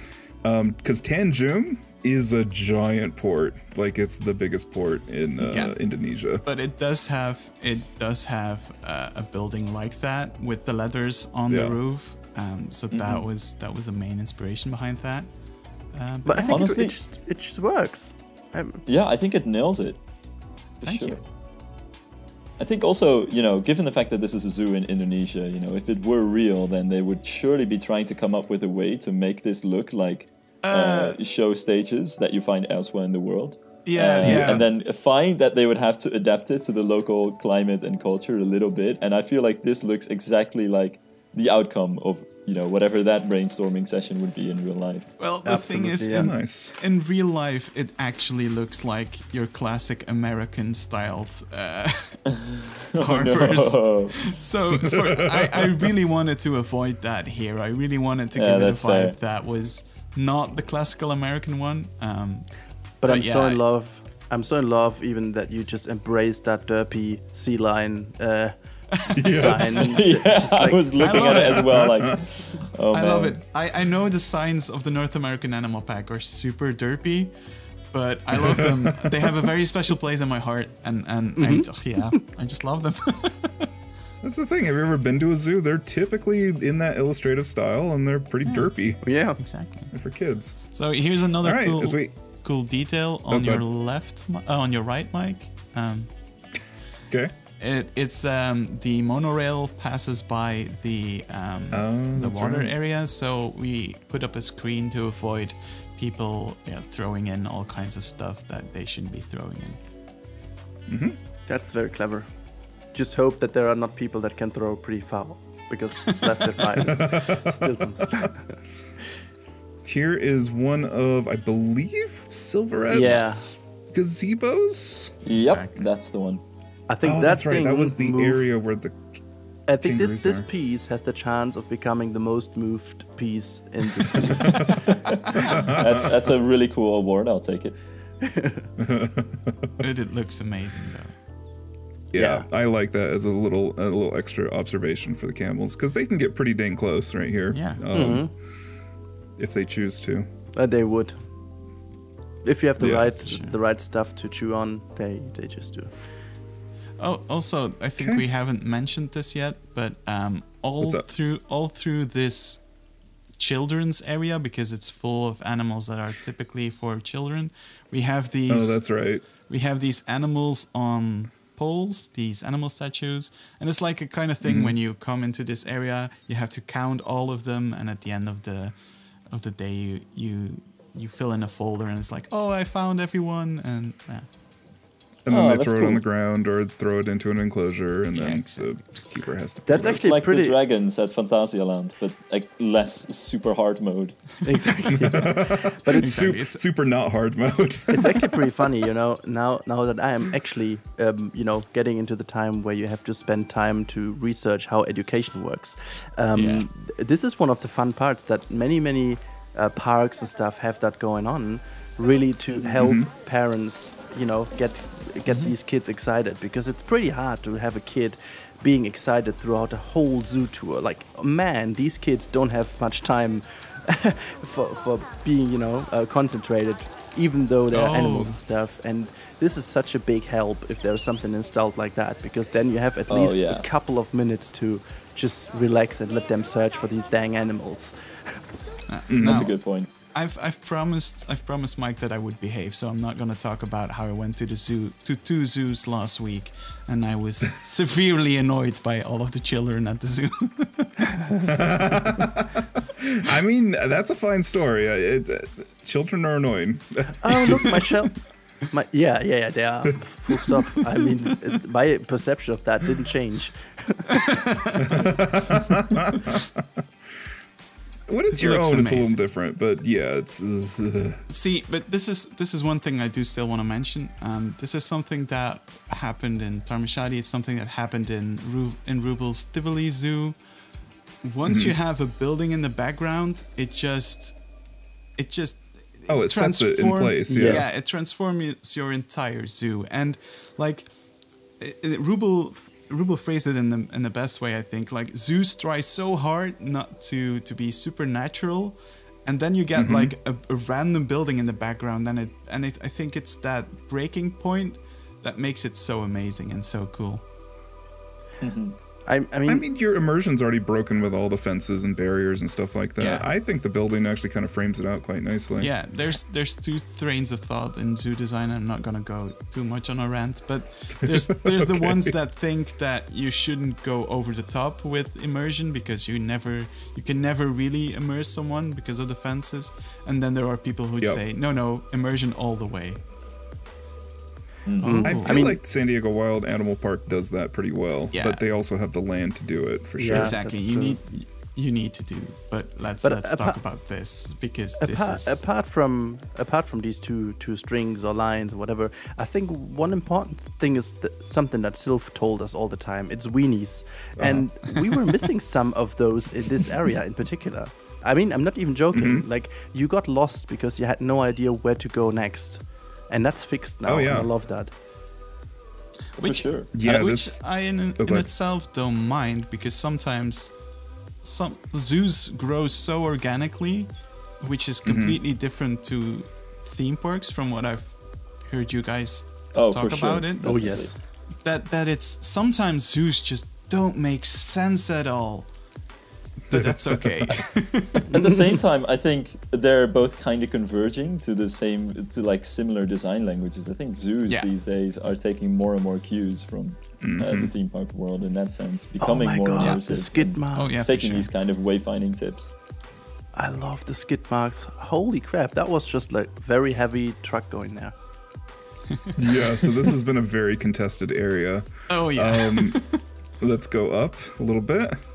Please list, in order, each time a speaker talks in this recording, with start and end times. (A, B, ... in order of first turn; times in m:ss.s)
0:00.4-0:06.4 A
0:05.4-0:05.8 B
0:06.4-0:15.3 B
0:07.6-0:07.9 A
0:11.5-0:11.8 A
0:12.9-0:13.3 C
0:15.9-0:16.6 B
0:16.2-0:18.8 D
0:16.5-0:17.0 C
0:18.9-0:20.0 C
0:20.8-0:21.2 B
0:20.8-0:21.2 C
0:22.6-0:45.1 C
0:30.6-0:31.2 B
0:33.9-0:34.7 B
0:34.2-0:34.6 A
0:45.2-0:52.2 B
0:45.4-0:46.3 D
0:46.1-0:46.7 A
0:52.3-0:54.3 C
0:53.0-1:03.6 B
0:54.7-0:55.9 A
0:58.4-0:59.2 C
1:03.0-1:08.6 D
1:09.1-1:10.9 D
1:09.1-1:10.0 B
1:09.1-1:09.9 A
1:09.5-1:13.4 C
1:11.0-1:11.9 B
1:11.1-1:12.2 A
1:12.9-1:17.3 B
1:17.9-1:23.7 B
1:18.4-1:19.5 A
1:21.4-1:21.7 D
1:24.2-1:29.0 A
1:28.4-1:28.7 B
1:29.0-1:29.4 D
1:29.4-1:29.9 B
1:29.9-1:30.8 A
1:30.7-1:36.1 B
1:31.4-1:32.1 A
1:33.3-1:33.6 A
1:37.6-1:49.8 B
1:41.7-1:42.7 A
1:50.9-1:51.2 A
1:51.5-1:52.3 D
1:52.9-1:58.6 D
1:56.8-1:58.3 A
1:59.8-2:05.1 A
2:02.9-2:03.6 D
2:05.2-2:06.4 C
2:05.3-2:05.9 B
2:06.9-2:08.5 D
2:07.0-2:09.2 A
2:09.7-2:14.7 D
2:09.8-2:10.5 A
2:14.3-2:14.8 A
2:14.8-2:17.8 C
2:15.4-2:16.2 A
2:18.2-2:18.7 D
2:18.8-2:19.8 A
2:19.8-2:21.1 B
2:22.1-2:28.3 A
2:22.2-2:22.5 D
2:27.5-2:27.9 B
2:27.9-2:28.3 D
2:29.4-2:30.3 A
2:30.6-2:31.2 D
2:32.4-2:35.9 D
2:32.8-2:33.1 A
2:33.2-2:33.6 B
2:37.0-2:42.7 B
2:38.0-2:38.3 A
2:40.8-2:41.1 A
2:43.4-2:48.9 B
2:48.5-2:49.2 A
2:49.4-2:58.8 B
2:54.4-2:54.8 A
2:59.3-3:04.3 B
3:05.2-3:10.1 A
3:05.3-3:06.0 C
3:08.1-3:08.9 B
3:09.7-3:10.6 D
3:09.8-3:14.3 C
3:14.4-3:16.2 D
3:14.9-3:18.4 A
3:16.0-3:16.6 B
3:17.9-3:58.4 D
3:26.4-3:26.7 B
3:32.8-3:33.1 A
3:35.3-3:35.5 B
3:47.7-3:48.4 B
3:53.1-3:53.7 C
3:58.9-3:59.6 B
3:59.1-3:59.5 A
3:59.2-3:59.9 C
4:00.1-4:11.2 B
4:11.4-4:17.9 A
4:17.2-4:18.2 D
4:18.7-4:24.2 D
4:24.1-4:25.0 B
4:24.8-4:26.6 A
4:28.1-4:31.2 A
4:28.3-4:29.2 B
4:31.3-4:40.4 B
4:41.2-4:44.4 B
4:41.5-4:41.8 A
4:45.2-4:50.9 B
4:46.1-4:47.7 A
4:47.3-4:47.7 D
4:51.6-5:07.2 B
4:59.8-5:00.2 A
5:08.4-5:08.8 C
5:09.1-5:09.6 D
5:09.5-5:15.7 A
5:13.0-5:13.3 B
5:15.6-5:33.0 B
5:21.0-5:22.2 A
5:34.7-5:35.1 C
5:34.8-5:35.6 D
5:34.8-5:35.4 B
5:35.0-5:40.4 A
5:38.1-5:38.4 B
5:40.0-5:41.0 D
5:40.1-5:45.4 B
5:43.0-5:43.6 D
5:44.8-6:04.7 D
5:54.2-5:54.5 A
5:58.9-5:59.3 A
6:03.8-6:04.3 A
6:06.2-6:06.7 C
6:06.2-6:10.6 B
6:06.7-6:07.4 A
6:08.0-6:08.3 A
6:11.2-6:20.6 B
6:14.8-6:15.2 A
6:19.5-6:20.9 C
6:20.4-6:21.0 D
6:21.4-6:25.5 B
6:26.5-6:27.4 A
6:26.5-6:28.1 B
6:28.1-6:42.5 C
6:37.0-6:37.5 A
6:39.0-6:40.8 D
6:39.6-6:39.8 B
6:40.5-6:41.3 B
6:43.3-6:47.9 D
6:48.9-6:49.9 B
6:49.2-6:52.8 A
6:51.9-6:53.0 B
6:53.4-6:55.0 A